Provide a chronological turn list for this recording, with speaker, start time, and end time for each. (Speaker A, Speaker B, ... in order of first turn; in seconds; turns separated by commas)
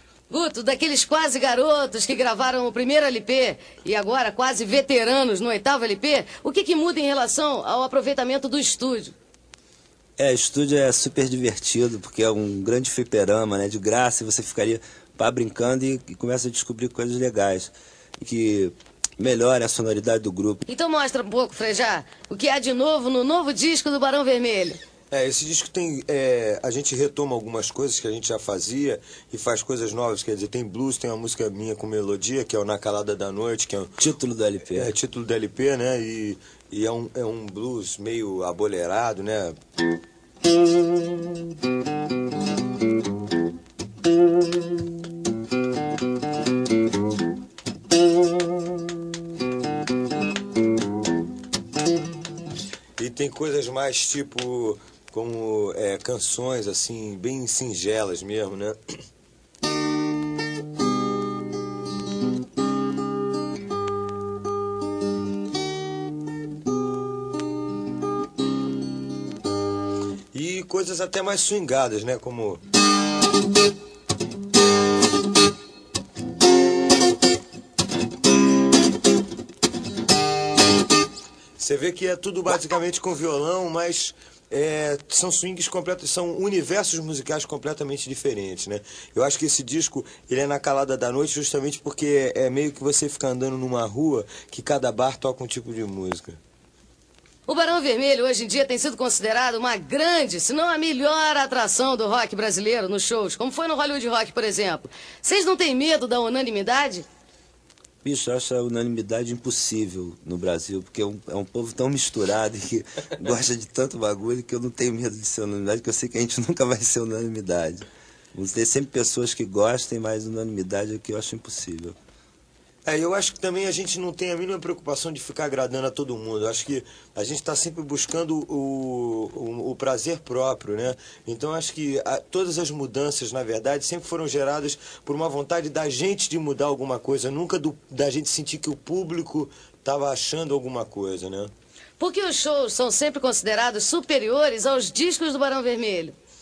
Speaker A: 0.3-9.1, Speaker B: 10.2-20.6, Speaker A: 20.7-24.8, Speaker C: 25.1-34.0, Speaker B: 34.0-34.9, Speaker C: 34.7-39.6, Speaker C: 53.0-58.8, Speaker C: 70.3-72.6, Speaker C: 81.6-96.4, Speaker A: 97.5-107.0, Speaker B: 108.0-122.0, Speaker C: 122.8-141.5, Speaker A: 142.0-146.2